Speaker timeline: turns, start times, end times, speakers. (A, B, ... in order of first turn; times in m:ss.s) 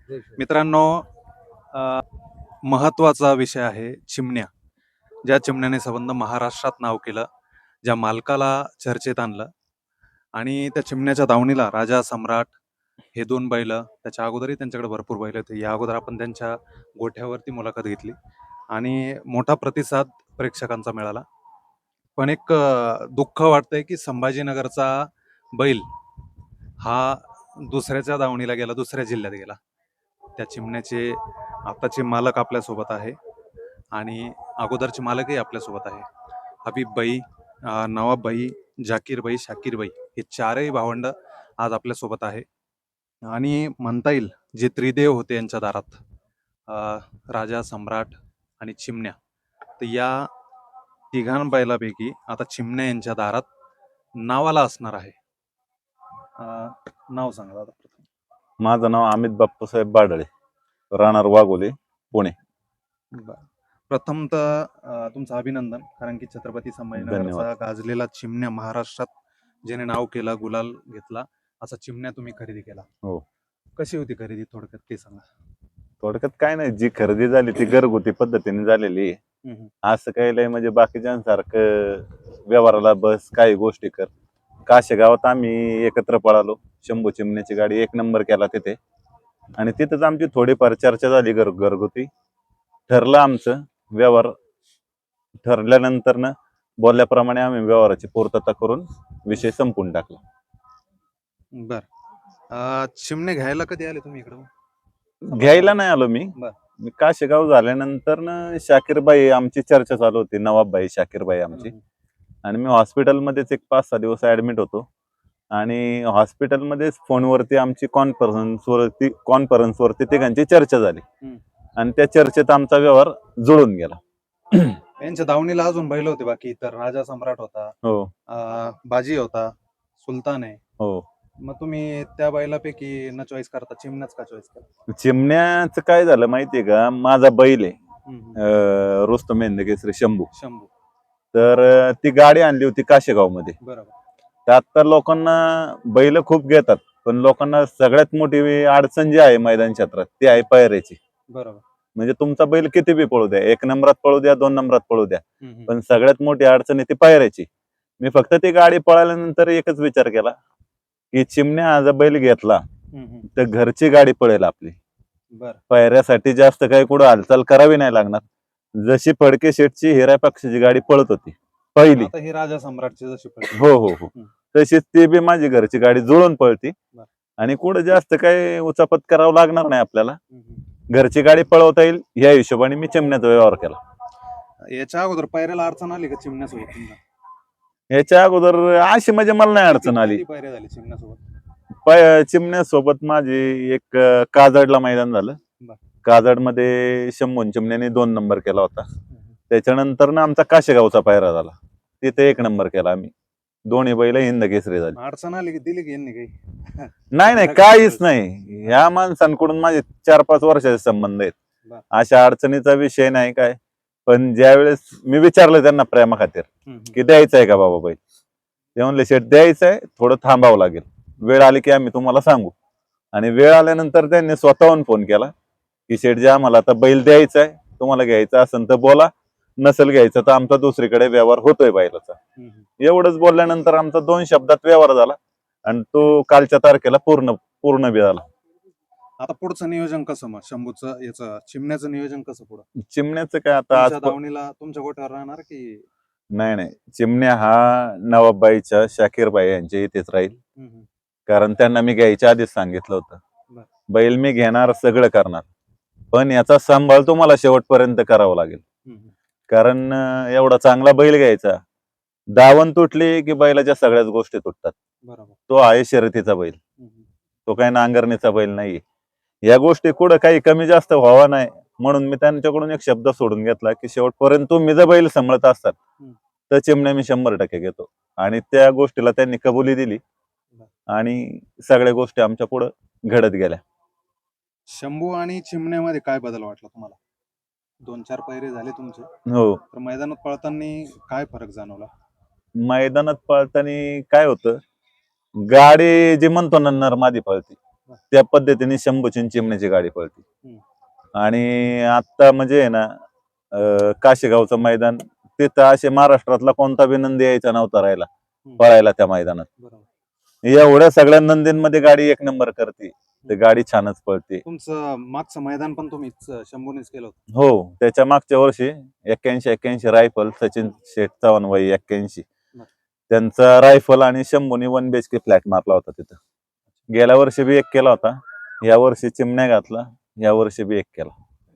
0:00.3-0:01.1 A
0:01.7-0:02.0 A
0:02.6-0:04.5 A
0:05.2-0:07.3 A
0:07.8-0:09.5 A
0:10.4-0:12.6 A
0:13.1-0:18.2 A
0:18.7-0:21.2 A
0:22.2-0:25.9 A
0:26.8-0:29.6 A
0:30.4-0:33.2 A
0:33.9-0:36.1 A
0:36.6-0:42.4 A
0:43.2-0:46.0 A
0:46.7-0:49.2 A
0:49.8-0:50.3 A
0:51.1-0:53.5 A
0:54.2-0:55.2 A
0:56.4-0:58.1 A
0:58.6-1:00.3 B
1:00.9-1:02.4 B
1:03.1-1:09.1 A
1:07.0-1:07.5 B
1:09.7-1:12.9 A
1:13.8-1:15.2 A
1:16.0-1:19.2 B
1:19.4-1:19.7 A
1:19.8-1:24.1 B
1:24.7-1:28.8 B
1:29.6-1:32.1 B
1:32.9-1:34.3 B
1:35.4-1:40.2 B
1:41.6-1:41.9 A
1:42.5-1:44.5 A
1:45.3-1:51.7 B
1:45.3-1:45.8 A
1:51.5-1:51.8 A
1:52.4-1:54.9 B
1:55.5-2:01.0 B
2:01.8-2:04.0 B
2:04.5-2:04.8 B
2:05.0-2:07.8 A
2:07.8-2:08.1 B
2:08.3-2:10.6 A
2:10.8-2:11.0 B
2:11.4-2:14.6 A
2:14.9-2:17.8 B
2:18.1-2:18.4 A
2:18.4-2:20.3 B
2:20.3-2:20.7 A
2:21.3-2:23.6 B
2:23.6-2:24.0 A
2:24.5-2:31.0 B
2:31.3-2:31.6 A
2:32.0-2:37.5 B
2:35.4-2:35.7 A
2:38.0-2:40.3 B
2:41.1-2:42.6 B
2:42.9-2:43.3 A
2:43.3-2:44.8 B
2:45.3-2:45.6 A
2:45.7-2:48.2 B
2:48.8-2:52.1 B
2:51.9-2:54.3 A
2:53.5-2:56.7 B
2:57.4-3:00.2 B
3:00.3-3:00.6 A
3:00.9-3:03.8 B
3:04.7-3:07.0 A
3:07.9-3:10.2 B
3:09.6-3:11.2 A
3:11.8-3:15.4 B
3:16.0-3:18.9 B
3:19.5-3:23.1 B
3:23.7-3:25.0 B
3:25.0-3:28.0 A
3:27.1-3:31.3 B
3:31.9-3:38.0 B
3:36.7-3:37.0 A
3:38.8-3:42.5 B
3:43.1-3:45.3 B
3:45.9-3:52.2 B
3:52.4-3:52.7 A
3:52.8-3:58.2 B
3:59.2-4:02.7 A
4:02.8-4:04.2 B
4:03.7-4:05.8 A
4:06.3-4:10.4 B
4:10.5-4:10.9 A
4:11.3-4:13.2 B
4:13.9-4:15.4 B
4:16.1-4:18.6 B
4:18.9-4:19.2 A
4:19.5-4:21.6 B
4:22.4-4:24.8 B
4:25.0-4:25.4 A
4:25.5-4:26.6 B
4:26.8-4:27.1 A
4:27.5-4:28.8 B
4:29.5-4:35.8 B
4:36.5-4:40.0 B
4:40.9-4:43.6 B
4:44.7-4:47.0 A
4:47.8-4:49.1 A
4:49.3-4:49.6 B
4:49.7-4:51.9 A
4:52.6-4:54.6 B
4:55.4-4:57.6 B
4:58.1-5:00.2 B
5:01.2-5:02.9 B
5:03.5-5:08.1 B
5:08.6-5:09.5 B
5:09.6-5:09.9 A
5:10.4-5:14.4 B
5:14.4-5:17.2 A
5:17.3-5:22.2 B
5:23.1-5:26.2 B
5:26.9-5:31.1 B